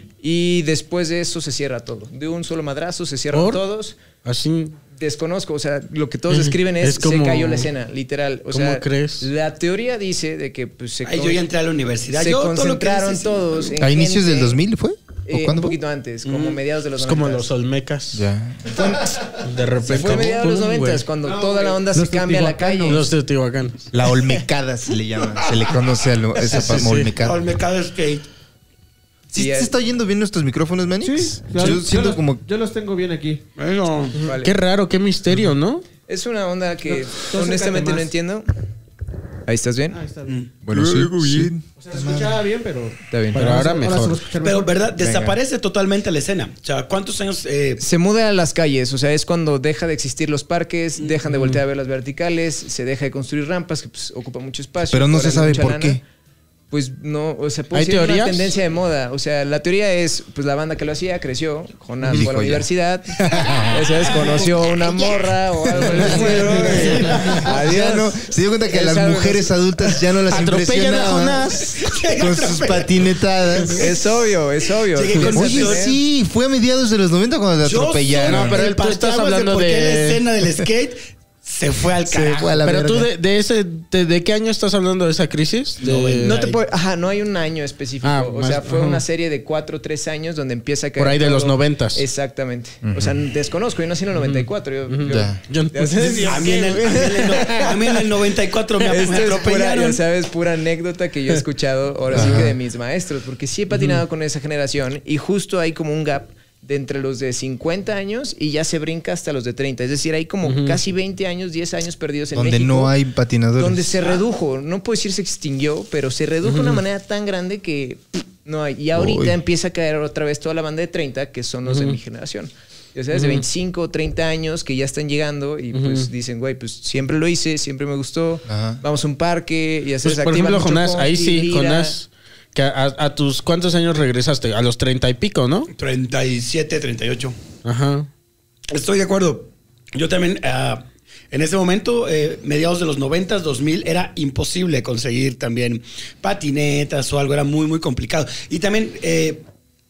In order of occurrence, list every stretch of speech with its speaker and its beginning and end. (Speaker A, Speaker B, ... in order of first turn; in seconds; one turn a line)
Speaker A: 0.2-4.0
Speaker B: 3.3-3.6
Speaker B: 4.2-4.8
Speaker A: 4.9-11.4
Speaker B: 6.3-7.7
Speaker B: 8.5-9.3
Speaker C: 11.0-13.7
Speaker A: 12.1-14.6
Speaker D: 13.8-15.8
Speaker A: 15.3-17.5
Speaker C: 16.2-16.6
Speaker B: 17.0-18.3
Speaker D: 18.1-18.9
Speaker A: 18.7-23.1
Speaker B: 19.4-21.1
Speaker C: 21.3-21.6
Speaker E: 21.9-23.0
Speaker B: 22.9-23.9
Speaker D: 23.9-27.5
Speaker B: 26.4-27.1
Speaker C: 27.2-28.2
Speaker D: 29.3-32.4
Speaker A: 29.3-29.7
Speaker E: 31.0-33.4
Speaker C: 33.6-34.2
Speaker A: 34.2-34.5
Speaker B: 34.4-35.9
Speaker A: 36.1-38.5
Speaker E: 36.9-38.1
Speaker A: 39.5-40.0
Speaker E: 39.9-40.4
Speaker A: 40.6-41.5
Speaker D: 40.7-42.4
Speaker E: 41.8-44.7
Speaker A: 43.1-43.4
Speaker B: 43.4-44.2
Speaker C: 44.4-47.8
Speaker D: 45.0-45.4
Speaker A: 47.8-56.0
Speaker B: 51.3-51.6
Speaker D: 54.9-56.0
Speaker A: 56.7-70.0
Speaker B: 57.7-58.5
Speaker D: 62.0-63.9
Speaker C: 64.2-64.5
Speaker B: 66.0-67.5
Speaker E: 66.1-67.0
Speaker C: 66.3-67.0
Speaker D: 67.3-74.0
Speaker B: 70.3-71.9
Speaker C: 71.8-72.9
Speaker C: 73.6-74.0
Speaker A: 73.8-76.0
Speaker C: 74.9-75.9
Speaker D: 75.3-78.6
Speaker C: 77.6-82.6
Speaker B: 78.2-80.2
Speaker D: 82.1-83.1
Speaker B: 82.6-86.4
Speaker C: 85.8-86.6
Speaker A: 86.2-97.7
Speaker B: 88.0-89.0
Speaker B: 91.0-92.0
Speaker D: 92.8-93.2
Speaker B: 94.2-97.9
Speaker D: 95.1-95.4
Speaker C: 96.2-100.0
Speaker A: 98.8-112.9
Speaker D: 102.1-102.6
Speaker B: 103.7-104.0
Speaker B: 110.5-110.8
Speaker D: 112.3-114.0
Speaker A: 113.6-132.0
Speaker B: 116.5-116.8
Speaker D: 119.0-119.4
Speaker B: 121.7-122.0
Speaker B: 123.1-123.4
Speaker B: 125.7-126.1
Speaker D: 128.5-128.8
Speaker B: 130.0-135.7
Speaker C: 135.7-137.4
Speaker B: 137.6-138.1
Speaker C: 138.7-149.4